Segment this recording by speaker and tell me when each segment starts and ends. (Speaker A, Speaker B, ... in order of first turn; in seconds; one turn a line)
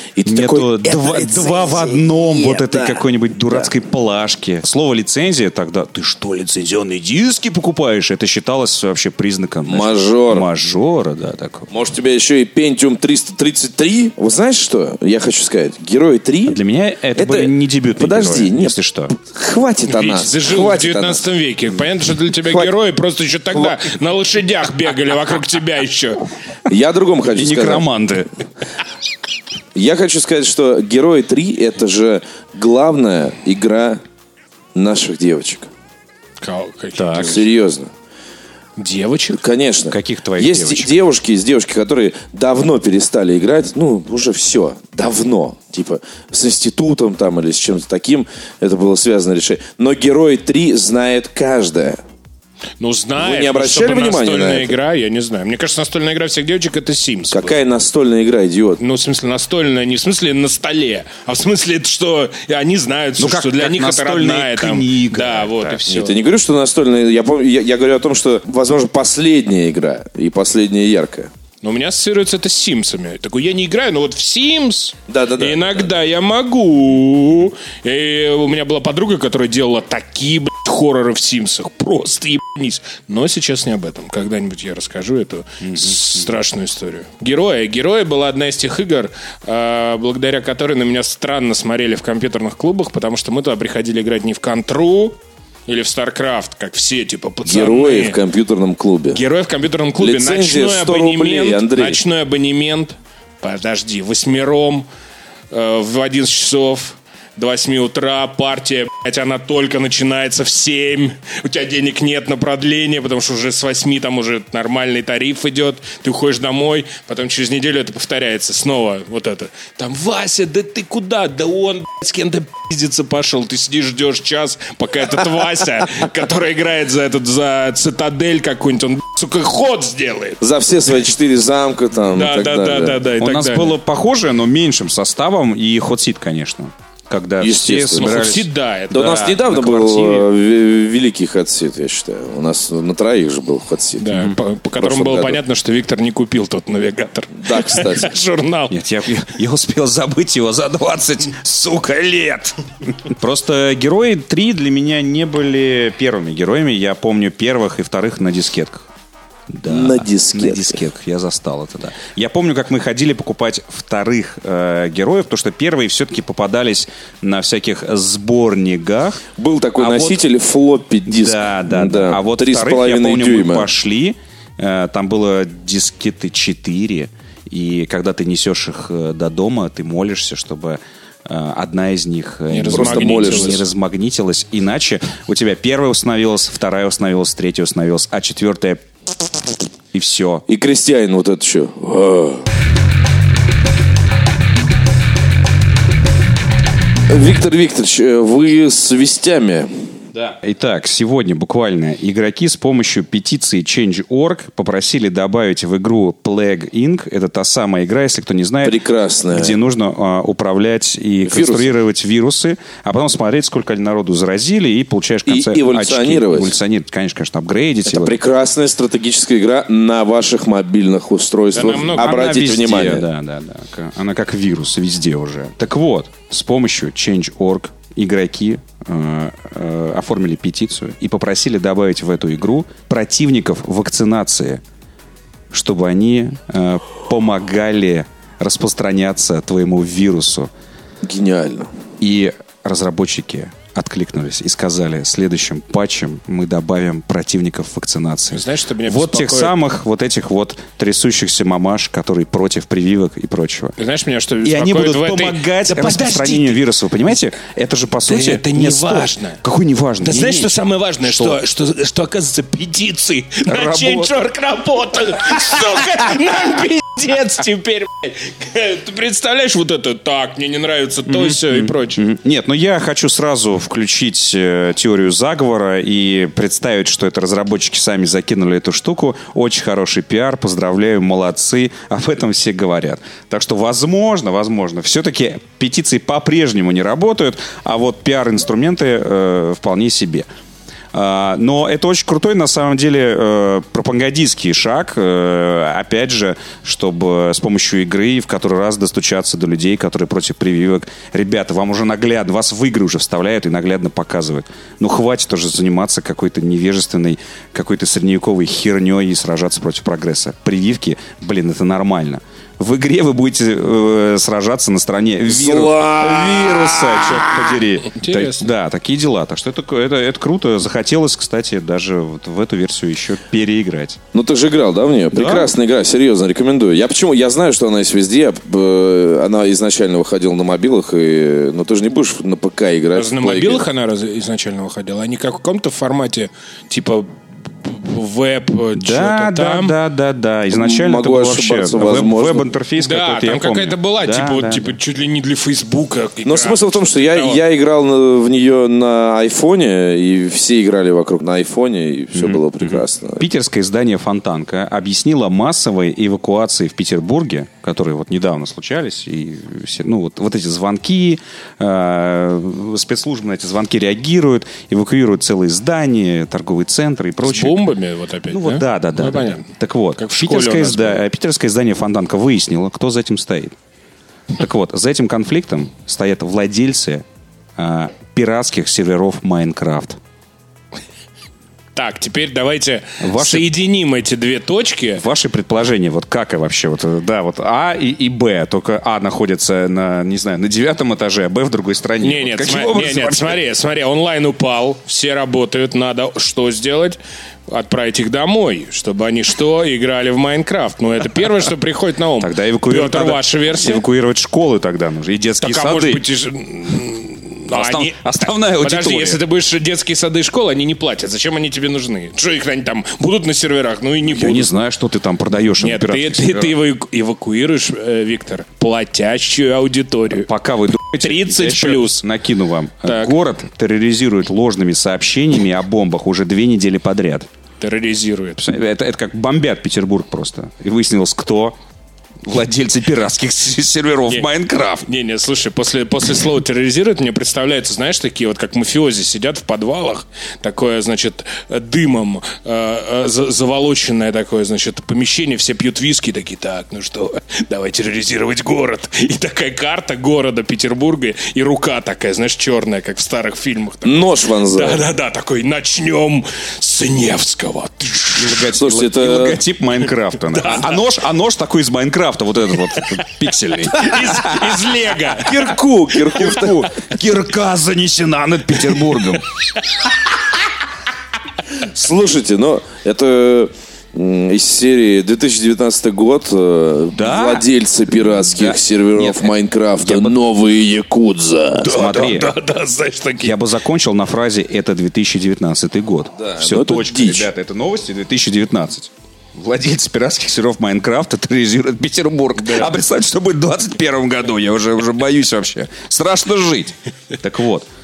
Speaker A: 0.2-3.7
Speaker B: 0.3-11.7
Speaker A: 9.7-10.5
Speaker A: 11.7-16.6
Speaker B: 16.5-19.1
Speaker A: 17.1-21.2
Speaker C: 19.9-26.3
Speaker A: 22.4-22.7
Speaker A: 26.7-27.9
Speaker B: 27.4-28.3
Speaker A: 29.8-34.0
Speaker A: 34.8-35.7
Speaker C: 36.4-37.5
Speaker A: 37.0-37.9
Speaker C: 38.8-39.4
Speaker A: 39.4-52.0
Speaker B: 39.9-40.9
Speaker C: 52.8-57.5
Speaker A: 53.2-54.7
Speaker A: 57.3-58.8
Speaker C: 58.8-66.2
Speaker B: 63.2-65.9
Speaker A: 65.9-71.3
Speaker C: 71.6-98.2
Speaker A: 75.1-75.9
Speaker B: 85.6-86.2
Speaker A: 97.5-99.2
Speaker C: 99.1-104.9
Speaker A: 100.0-102.0
Speaker C: 105.5-130.4
Speaker A: 130.4-133.0
Speaker C: 132.1-133.8
Speaker B: 133.2-138.5
Speaker A: 137.4-138.2
Speaker C: 138.0-139.4
Speaker A: 138.9-144.1
Speaker B: 139.1-140.3
Speaker C: 144.0-148.8
Speaker B: 144.1-144.4
Speaker A: 144.8-145.4
Speaker A: 147.3-148.1
Speaker B: 148.7-158.9
Speaker B: 159.5-169.2
Speaker A: 159.7-160.8
Speaker A: 169.4-173.7
Speaker B: 169.8-170.2
Speaker B: 171.1-188.8
Speaker C: 182.5-183.6
Speaker A: 182.7-183.6
Speaker B: 189.9-190.4
Speaker A: 190.5-192.5
Speaker A: 197.1-199.8
Speaker B: 200.2-208.8
Speaker A: 208.6-209.6
Speaker B: 209.3-218.2
Speaker A: 211.2-211.7
Speaker A: 215.3-216.6
Speaker A: 217.9-223.1
Speaker C: 221.5-222.2
Speaker B: 222.0-234.6
Speaker B: 235.5-240.5
Speaker A: 241.0-241.7
Speaker B: 242.0-253.8
Speaker C: 248.3-249.6
Speaker C: 253.8-256.7
Speaker B: 254.4-261.4
Speaker C: 258.1-259.4
Speaker C: 260.0-272.0
Speaker B: 263.5-264.1
Speaker B: 271.1-290.3
Speaker B: 290.9-324.0
Speaker A: 315.3-317.4
Speaker C: 318.0-318.5
Speaker A: 324.1-333.6
Speaker B: 325.1-325.5
Speaker C: 332.9-339.7
Speaker B: 338.7-344.8
Speaker A: 340.5-342.5
Speaker C: 342.8-347.4
Speaker A: 346.2-353.2
Speaker B: 352.1-367.7
Speaker C: 367.2-369.5
Speaker B: 368.3-373.6
Speaker C: 370.0-371.0
Speaker B: 374.4-377.1
Speaker B: 377.6-380.0
Speaker C: 381.8-385.1
Speaker B: 383.0-383.5
Speaker B: 385.0-393.4
Speaker C: 392.0-403.8
Speaker B: 402.2-406.0
Speaker C: 405.4-408.0
Speaker B: 407.5-409.2
Speaker C: 408.6-414.5
Speaker B: 414.1-416.6
Speaker C: 415.6-420.3
Speaker B: 420.2-427.3
Speaker C: 420.9-422.0
Speaker C: 422.8-423.1
Speaker C: 427.6-428.4
Speaker B: 428.4-431.5
Speaker B: 432.2-434.9
Speaker C: 434.9-458.5
Speaker A: 453.8-454.9
Speaker B: 458.2-464.7
Speaker A: 458.5-459.4
Speaker C: 460.3-460.7
Speaker C: 463.7-465.5
Speaker A: 465.2-466.7
Speaker B: 466.0-469.3
Speaker A: 471.6-481.9
Speaker B: 476.9-480.2
Speaker C: 481.6-483.4
Speaker B: 481.7-482.3
Speaker B: 483.2-497.7
Speaker A: 486.2-487.3
Speaker C: 492.4-492.7